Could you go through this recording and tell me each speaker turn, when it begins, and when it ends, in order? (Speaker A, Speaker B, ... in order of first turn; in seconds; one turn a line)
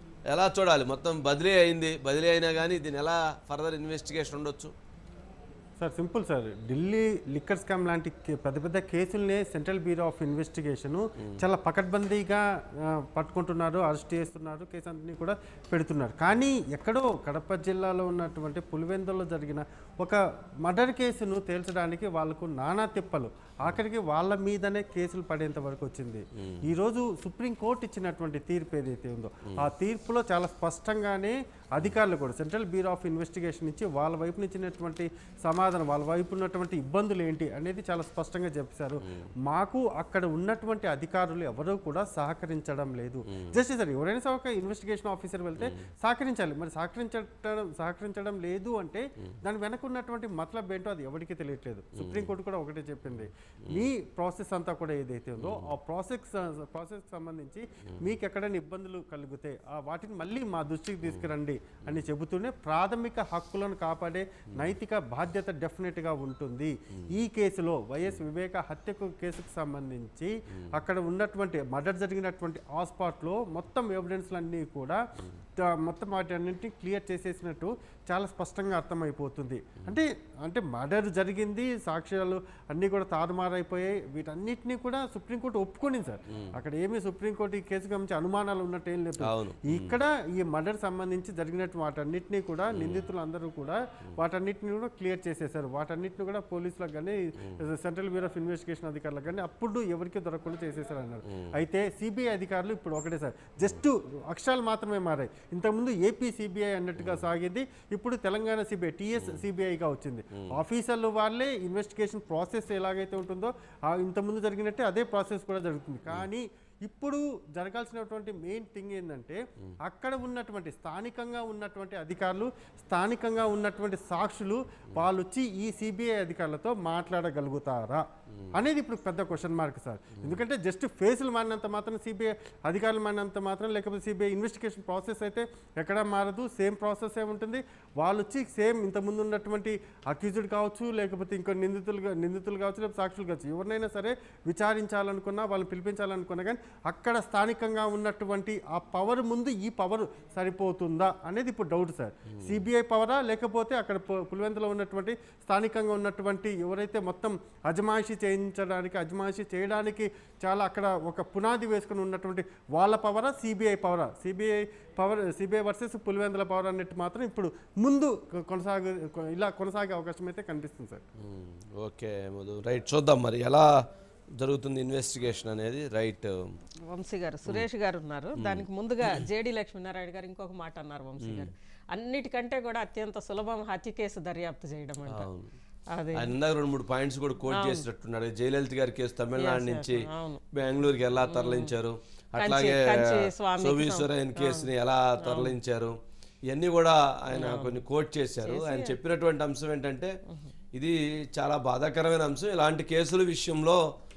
Speaker A: 0.3-4.7
Speaker B: 5.8-75.0
Speaker A: 52.0-52.3
Speaker A: 55.4-55.7
Speaker A: 61.0-61.3
Speaker B: 75.6-171.0
Speaker A: 89.2-90.0
Speaker A: 92.7-93.1
Speaker A: 171.2-173.7
Speaker A: 174.4-176.5
Speaker C: 176.9-185.3
Speaker A: 178.4-179.2
Speaker A: 181.2-181.5
Speaker A: 185.1-185.5
Speaker C: 185.9-186.3
Speaker A: 186.1-195.9
Speaker C: 187.5-187.8
Speaker C: 189.3-190.4
Speaker C: 191.2-191.7
Speaker C: 192.4-195.5
Speaker A: 196.5-200.1
Speaker C: 197.3-197.8
Speaker C: 198.4-199.0
Speaker A: 200.7-203.8